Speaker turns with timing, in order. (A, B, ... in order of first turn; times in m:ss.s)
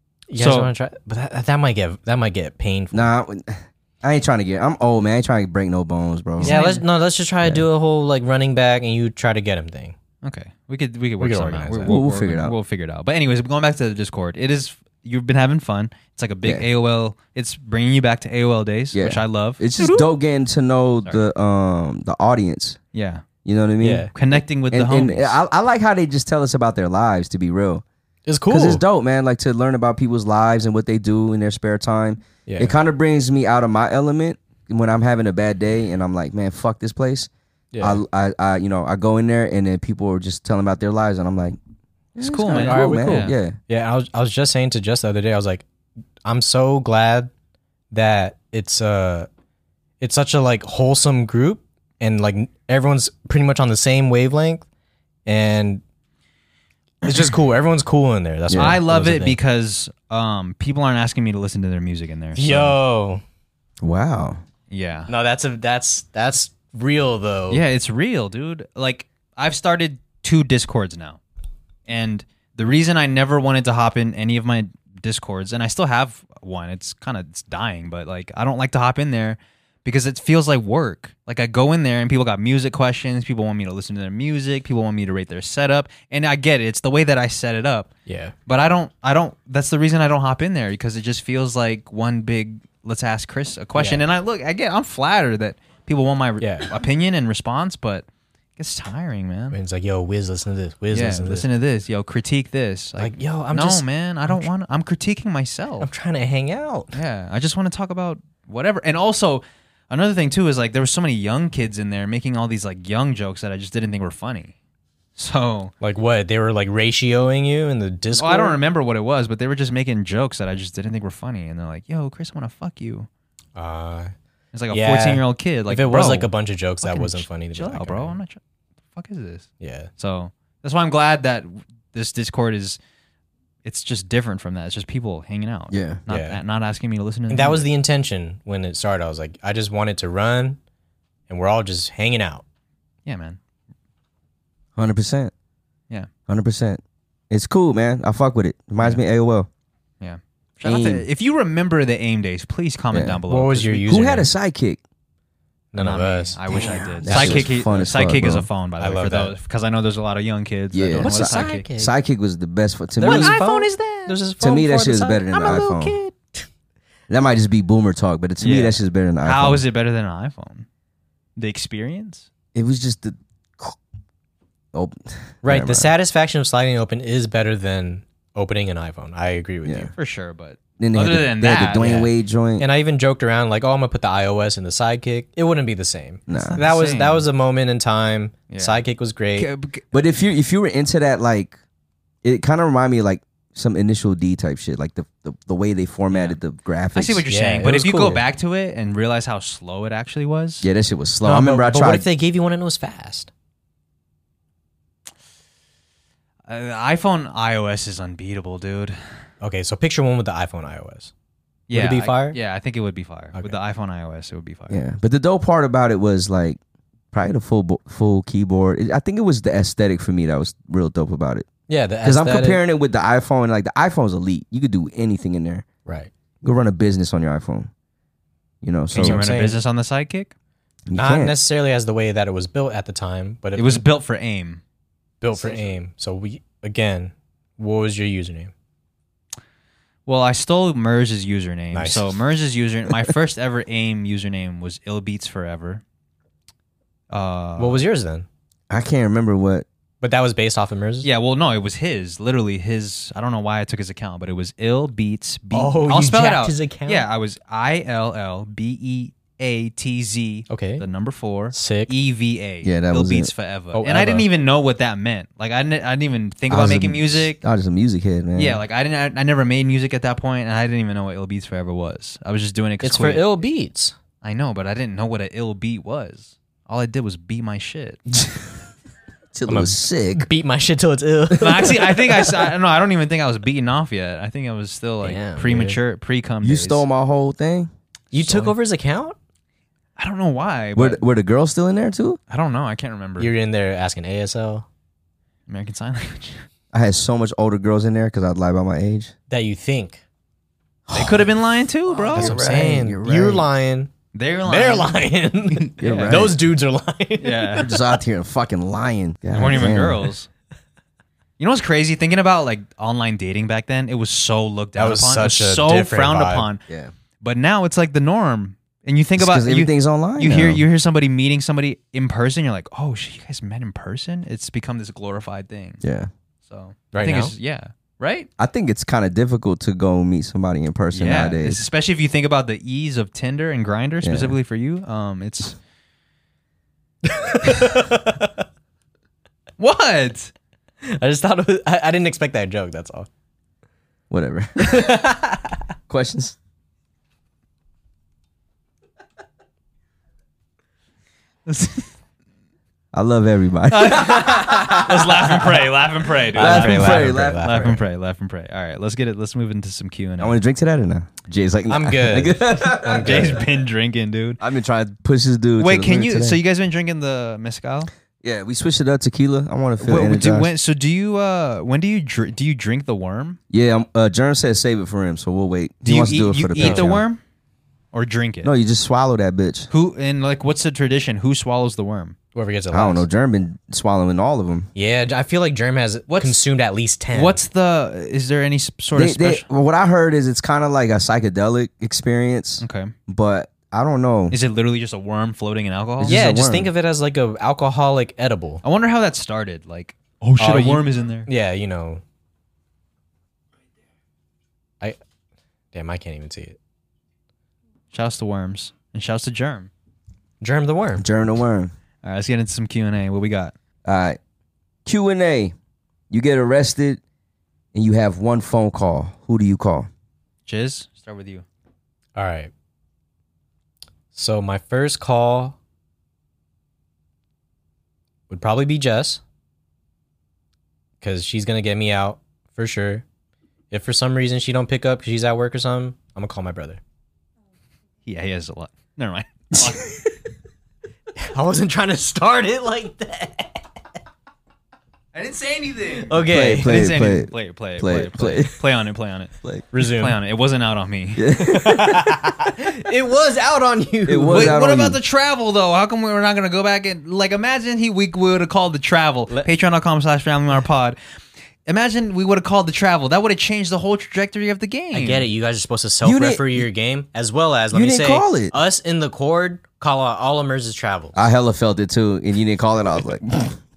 0:00.3-0:03.1 A
0:00.4-0:00.7 B
0:02.9-0:06.6 C
0:06.4-0:06.8 B
0:06.4-0:09.9 A
0:10.2-0:19.6 B
0:11.2-0:12.0 A
0:11.8-0:12.6 C
0:18.9-0:22.8 C
0:19.8-0:20.1 A
0:22.9-0:23.2 B
0:23.4-0:27.8 C
0:23.8-0:24.1 A
0:24.1-0:25.4 B
0:28.2-0:28.8 A
0:28.5-0:37.3 C
0:32.4-0:32.7 A
0:37.7-0:38.0 A
0:37.8-0:41.6 C
0:42.2-0:43.6 C
0:42.2-0:43.3 B
0:42.5-0:45.6 A
0:46.2-0:47.3 A
0:47.9-0:49.3 A
0:50.0-0:54.6 A
0:55.2-0:55.8 A
0:57.0-0:59.4 A
0:58.5-0:58.8 C
0:58.5-1:02.8 B
1:02.3-1:03.2 A
1:03.8-1:04.4 C
1:04.7-1:05.1 B
1:05.1-1:07.6 A
1:07.5-1:11.2 B
1:11.9-1:27.9 B
1:28.1-1:28.3 A
1:28.5-1:38.0 B
1:33.7-1:34.0 A
1:36.4-1:36.7 A
1:38.6-1:39.6 B
1:39.5-1:41.4 A
1:40.9-1:45.9 B
1:43.0-1:44.5 A
1:45.8-1:47.0 A
1:46.9-1:54.5 B
1:55.2-1:55.7 B
1:55.8-1:58.6 A
1:58.1-2:03.1 B
2:03.6-2:04.1 A
2:04.5-2:06.3 B
2:04.7-2:08.2 A
2:06.8-2:08.4 B
2:08.9-2:12.8 B
2:09.6-2:09.9 A
2:13.6-2:17.6 B
2:15.7-2:16.0 C
2:16.1-2:16.4 A
2:17.3-2:20.6 A
2:21.3-2:22.4 A
2:23.0-2:23.4 B
2:24.8-2:25.3 C
2:26.3-2:29.5 C
2:30.0-2:33.9 B
2:30.6-2:31.0 C
2:32.9-2:33.2 C
2:33.3-2:34.3 A
2:33.9-2:34.8 C
2:35.7-2:37.5 A
2:35.8-2:41.6 B
2:36.6-2:38.5 C
2:38.8-2:39.4 A
2:40.7-2:43.4 C
2:41.0-2:41.9 A
2:43.0-2:46.4 A
2:43.0-2:44.2 B
2:44.4-2:46.0 C
2:47.1-2:49.6 C
2:48.4-2:50.6 B
2:51.4-2:52.3 B
2:52.5-2:53.8 C
2:54.7-2:55.9 C
2:55.4-2:59.9 A
2:59.6-2:59.9 C
3:00.0-3:02.0 B
3:00.8-3:02.6 C
3:01.8-3:09.5 A
3:06.3-3:06.6 C
3:06.3-3:07.2 B
3:08.5-3:08.8 B
3:09.4-3:09.8 B
3:09.9-3:11.6 C
3:12.2-3:17.2 C
3:16.1-3:16.4 B
3:16.9-3:20.6 B
3:17.3-3:18.2 A
3:20.6-3:22.0 C
3:21.2-3:23.3 A
3:26.5-3:29.0 B
3:29.4-3:31.1 A
3:31.7-3:34.8 B
3:31.7-3:32.4 A
3:34.7-3:36.6 C
3:37.1-3:41.5 C
3:41.7-3:42.6 A
3:42.0-3:45.6 C
3:45.8-3:46.1 A
3:46.4-3:47.7 C
3:48.6-3:49.2 C
3:48.9-3:50.3 B
3:48.9-3:49.6 A
3:50.9-3:51.4 C
3:50.9-3:53.8 A
3:53.6-3:54.6 B
3:55.2-3:58.5 A
4:00.0-4:05.8 B
4:01.7-4:02.2 A
4:07.1-4:07.8 B
4:07.6-4:08.3 A
4:08.7-4:09.6 C
4:10.0-4:11.1 A
4:11.0-4:27.4 B
4:15.5-4:17.1 A
4:20.5-4:20.8 A
4:21.5-4:21.9 A
4:22.6-4:23.3 C
4:23.7-4:24.3 A
4:26.5-4:28.6 C
4:28.3-4:33.2 B
4:32.8-4:33.9 A
4:34.2-4:38.0 B
4:38.1-4:38.4 C
4:39.3-4:40.3 C
4:39.5-4:42.4 A
4:41.4-4:46.8 B
4:45.0-4:45.8 A
4:46.4-4:47.7 C
4:48.1-4:49.2 A
4:48.1-4:48.5 B
4:50.0-4:51.0 B
4:50.8-4:52.2 C
4:52.3-4:53.3 B
4:53.2-4:54.6 A
4:55.5-4:56.4 B
4:56.7-4:59.1 C
4:59.3-5:00.0 A
5:00.9-5:01.3 C
5:00.9-5:02.4 B
5:01.9-5:03.4 C
5:02.1-5:03.9 A
5:04.1-5:06.3 B
5:04.4-5:07.7 A
5:05.8-5:06.4 C
5:07.2-5:07.7 B
5:07.6-5:10.1 C
5:09.3-5:10.3 B
5:11.4-5:16.6 B
5:14.8-5:16.5 A
5:16.7-5:16.9 C
5:17.2-5:25.8 B
5:19.2-5:20.6 C
5:25.8-5:26.1 C
5:26.4-5:28.3 B
5:26.9-5:27.3 A
5:28.4-5:31.6 C
5:30.9-5:35.6 B
5:34.0-5:34.4 C
5:37.0-5:38.3 A
5:39.6-5:40.3 B
5:40.8-5:43.1 A
5:44.1-5:45.0 C
5:44.6-5:45.6 A
5:45.9-5:46.4 C
5:51.4-5:51.9 B
5:52.9-5:55.5 C
5:53.7-6:00.4 B
5:56.3-5:57.8 C
5:56.3-5:57.8 A
6:00.2-6:03.4 C
6:01.7-6:03.4 A
6:03.0-6:04.4 B
6:04.4-6:06.4 C
6:05.6-6:07.9 B
6:08.2-6:10.5 C
6:09.8-6:13.4 B
6:13.5-6:17.0 C
6:15.8-6:17.2 B
6:16.6-6:16.9 A
6:17.9-6:18.5 B
6:18.4-6:19.7 C
6:19.7-6:22.2 B
6:22.3-6:23.0 A
6:22.7-6:24.7 C
6:24.7-6:27.4 A
6:26.1-6:26.4 B
6:27.1-6:29.4 B
6:28.9-6:34.4 C
6:32.6-6:32.9 B
6:34.3-6:36.2 B
6:36.0-6:36.7 C
6:36.0-6:38.6 A
6:38.6-6:41.3 B
6:40.4-6:42.0 A
6:45.7-6:46.6 A
6:47.9-6:49.7 B
6:50.4-6:51.0 A
6:51.0-6:51.7 C
6:52.0-6:53.5 B
6:53.8-6:54.2 C
6:54.8-6:55.5 C
6:56.1-6:57.0 C
6:57.7-6:59.9 C
7:00.4-7:01.4 B
7:02.2-7:02.5 A
7:04.1-7:05.6 A
7:08.3-7:09.2 A
7:11.0-7:13.0 A
7:13.7-7:16.8 A
7:18.0-7:19.9 B
7:21.2-7:23.6 A
7:25.1-7:31.2 B
7:26.0-7:26.8 A
7:26.2-7:28.6 C
7:29.7-7:30.2 A
7:31.2-7:32.4 C
7:31.4-7:34.6 A
7:34.1-7:35.0 C
7:34.3-7:41.0 B
7:41.7-7:45.2 B
7:44.9-7:51.2 A
7:46.0-7:46.6 C
7:47.7-7:48.5 C
7:51.1-7:53.6 C